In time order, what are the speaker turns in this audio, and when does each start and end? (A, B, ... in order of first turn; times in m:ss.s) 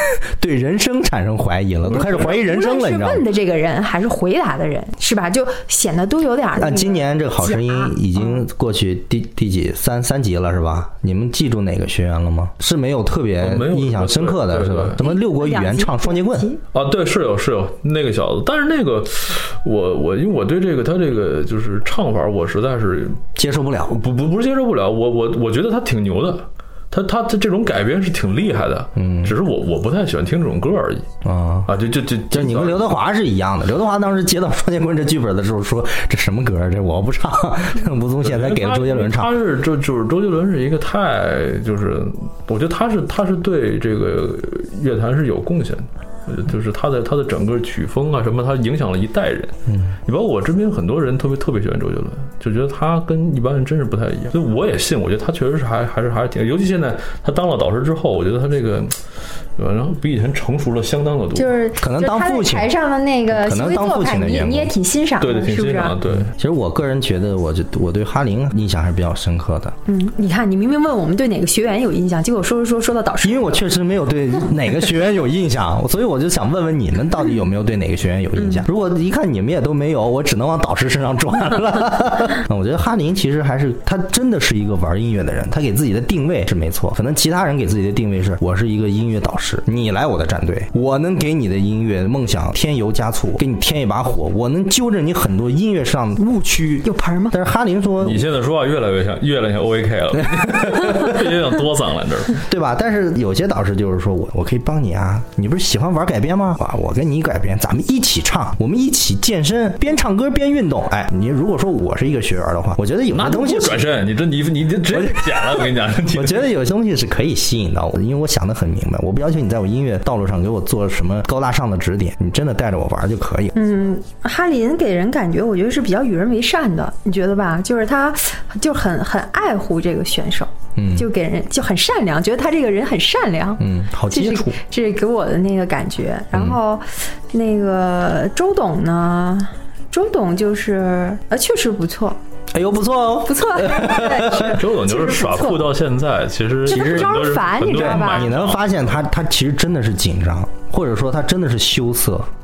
0:00.3-0:03.3 A
0:01.8-0:08.4 B
0:06.6-0:16.5 A
0:13.4-0:15.0 C
0:15.0-0:16.6 B
0:16.7-0:23.2 C
0:23.4-0:24.0 A
0:23.9-0:31.0 C
0:29.0-0:29.4 A
0:31.2-0:31.7 A
0:31.6-0:32.9 C
0:32.3-0:39.3 A
0:38.2-0:49.5 C
0:49.7-0:50.0 A
0:50.0-0:59.0 C
0:59.6-1:01.5 C
1:01.3-1:06.0 B
1:01.8-1:02.7 A
1:03.3-1:04.7 A
1:05.2-1:06.3 C
1:06.2-1:09.7 A
1:09.8-1:13.6 B
1:13.2-1:38.2 A
1:18.4-1:18.6 B
1:36.8-1:37.3 B
1:38.0-1:42.4 C
1:42.4-1:53.8 A
1:53.1-1:56.5 C
1:54.9-2:03.5 A
2:03.5-2:22.2 B
2:10.8-2:11.0 A
2:13.6-2:14.6 A
2:16.3-2:16.6 A
2:22.5-2:24.6 A
2:23.2-2:25.7 B
2:24.4-2:28.8 C
2:26.6-2:28.3 B
2:26.7-2:32.3 A